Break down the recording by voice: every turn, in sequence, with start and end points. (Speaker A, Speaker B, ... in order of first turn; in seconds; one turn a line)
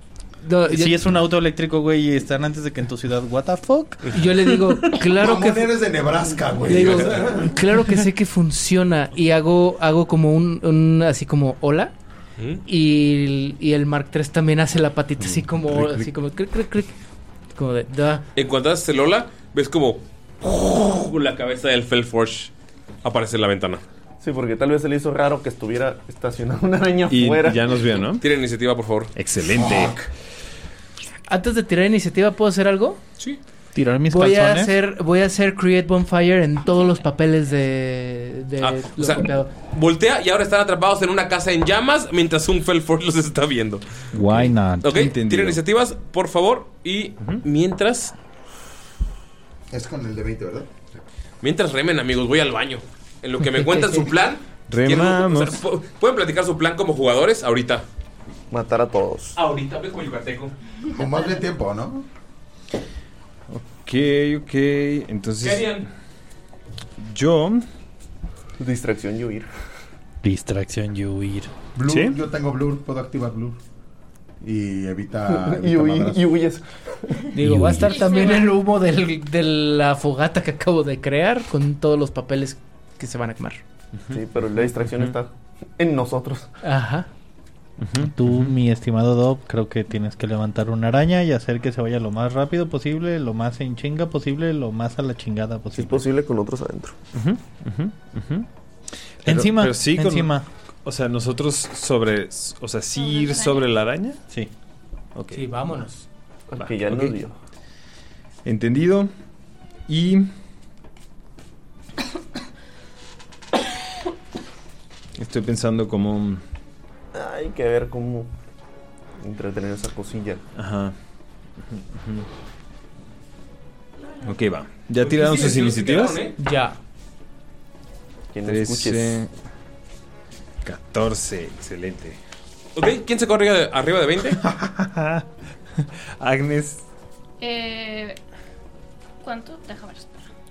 Speaker A: 0.4-1.0
Speaker B: 0.7-4.3
Speaker A: 4.1-5.7
Speaker C: 5.1-7.6
Speaker A: 6.6-11.9
Speaker A: 12.6-16.9
Speaker C: 15.2-16.1
Speaker A: 17.5-18.2
Speaker D: 18.4-22.5
Speaker D: 23.0-23.8
Speaker E: 24.2-27.8
Speaker F: 27.1-28.2
Speaker D: 28.2-29.1
Speaker F: 29.1-30.0
Speaker C: 29.5-30.1
Speaker A: 31.3-33.0
Speaker B: 33.7-34.7
Speaker A: 34.1-39.5
Speaker D: 38.6-43.8
Speaker B: 44.1-45.1
Speaker F: 44.2-45.6
Speaker D: 44.8-48.1
Speaker C: 49.7-50.9
Speaker D: 51.4-57.8
Speaker F: 54.7-55.6
Speaker E: 58.5-59.3
Speaker D: 59.4-60.5
Speaker C: 60.9-62.0
Speaker F: 63.5-65.8
Speaker D: 65.4-65.8
Speaker F: 67.0-67.7
Speaker E: 68.6-69.5
Speaker B: 70.2-71.5
Speaker C: 71.8-73.6
Speaker F: 71.9-72.2
Speaker C: 74.4-76.3
Speaker E: 75.3-77.2
Speaker A: 77.3-83.6
Speaker B: 77.4-78.1
Speaker G: 77.8-78.5
Speaker E: 84.1-86.5
Speaker A: 86.6-87.1
Speaker F: 87.8-88.5
Speaker B: 88.0-96.0
Speaker E: 95.7-97.0
Speaker F: 97.1-98.5
Speaker F: 99.2-100.3
Speaker B: 99.2-100.5
Speaker F: 100.8-104.2
Speaker G: 102.9-103.7
Speaker F: 105.1-105.5
Speaker A: 105.3-106.0
Speaker E: 106.5-107.3
Speaker F: 106.6-107.2
Speaker F: 108.4-109.1
Speaker F: 109.9-110.3
Speaker F: 115.2-116.4
Speaker E: 117.1-118.3
Speaker E: 119.2-120.4
Speaker F: 120.5-120.9
Speaker F: 121.6-122.2
Speaker F: 124.2-126.3
Speaker D: 125.0-126.3
Speaker A: 126.4-126.8
Speaker E: 128.3-129.2
Speaker F: 128.4-129.3
Speaker F: 130.6-132.2
Speaker D: 132.8-134.4
Speaker F: 134.4-135.2
Speaker F: 135.8-136.8
Speaker G: 137.4-138.2
Speaker G: 139.2-140.2